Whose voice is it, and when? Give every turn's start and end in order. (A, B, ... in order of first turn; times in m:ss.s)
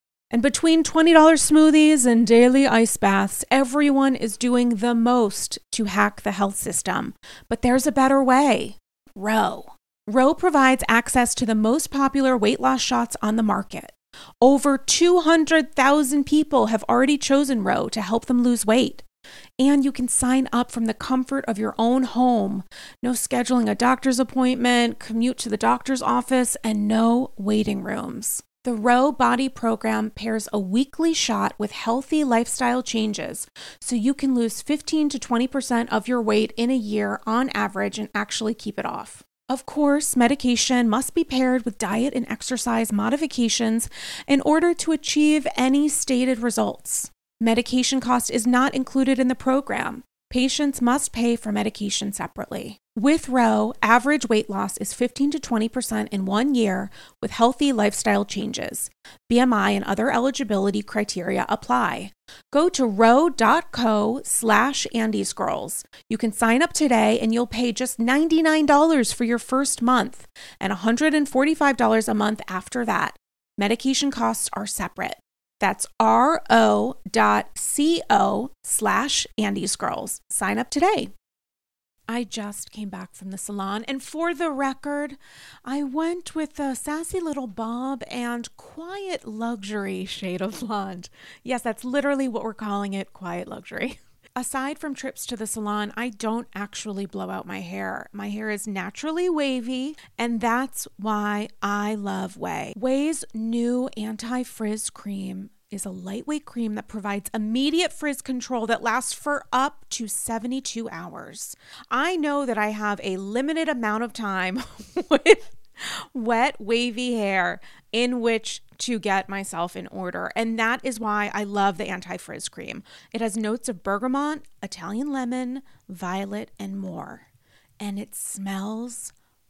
0:00.3-0:19.0 A
0:19.6-1:21.1 A
1:22.1-2:07.3 A
2:07.8-2:09.1 A